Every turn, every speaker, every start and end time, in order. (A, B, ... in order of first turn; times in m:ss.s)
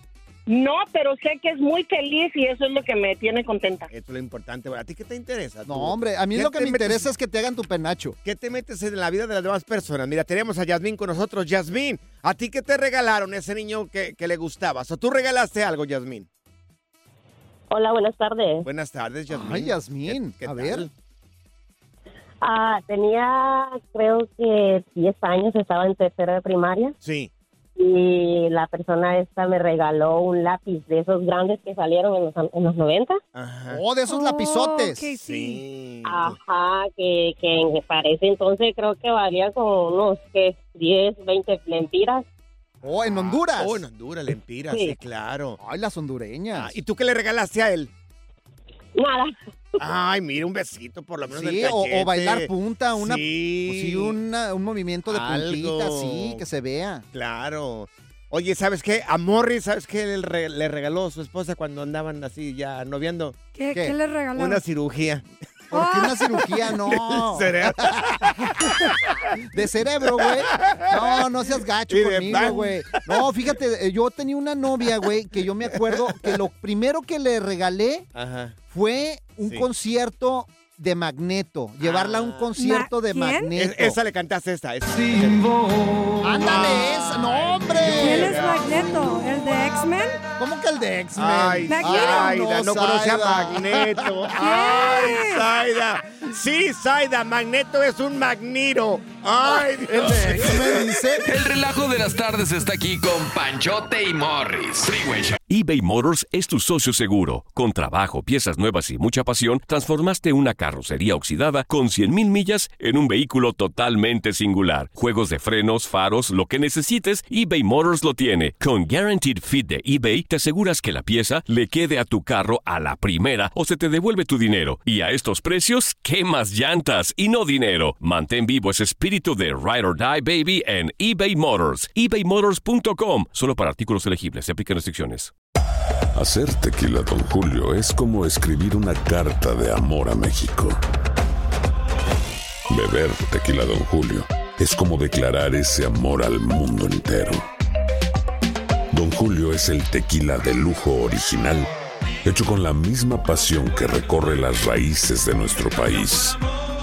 0:00.5-0:03.9 A
0:03.9-0:07.1 B
0:05.7-0:08.2 C
0:08.2-0:16.3 B
0:17.7-0:18.7 D
0:18.6-0:20.9 B
0:19.3-0:20.9 C
0:22.4-0:27.0 D
0:27.0-0:27.3 B
0:27.8-0:33.2 D
0:33.4-0:33.8 B
0:33.7-0:35.1 C
0:34.1-0:35.6 E
0:35.2-0:36.4 B
0:36.0-0:42.3 D
0:42.8-0:43.8 C
0:42.9-0:45.6 B
0:44.7-0:45.0 D
0:45.6-0:46.8 C
0:46.5-0:47.9 B
0:49.0-0:49.3 D
0:49.8-0:54.2 B
0:51.3-0:57.0 C
0:55.1-0:56.4 B
0:57.1-1:03.4 B
1:03.5-1:04.6 E
1:04.4-1:05.2 B
1:05.7-1:06.2 E
1:05.7-1:08.7 C
1:06.4-1:08.9 B
1:09.4-1:18.1 C
1:10.2-1:11.2 B
1:11.9-1:13.2 B
1:15.9-1:16.4 B
1:18.2-1:18.6 B
1:18.7-1:24.0 C
1:21.8-1:22.5 B
1:22.6-1:23.5 E
1:23.6-1:25.5 B
1:26.2-1:28.4 C
1:26.4-1:29.2 B
1:27.9-1:30.2 E
1:30.4-1:35.0 C
1:31.2-1:41.0 B
1:31.7-1:32.4 E
1:34.4-1:35.5 E
1:39.9-1:41.2 C
1:41.2-1:45.4 F
1:45.5-2:15.3 G
2:16.2-2:20.8 H
2:22.7-2:27.4 H
2:28.9-2:31.7 H
2:32.2-2:36.4 H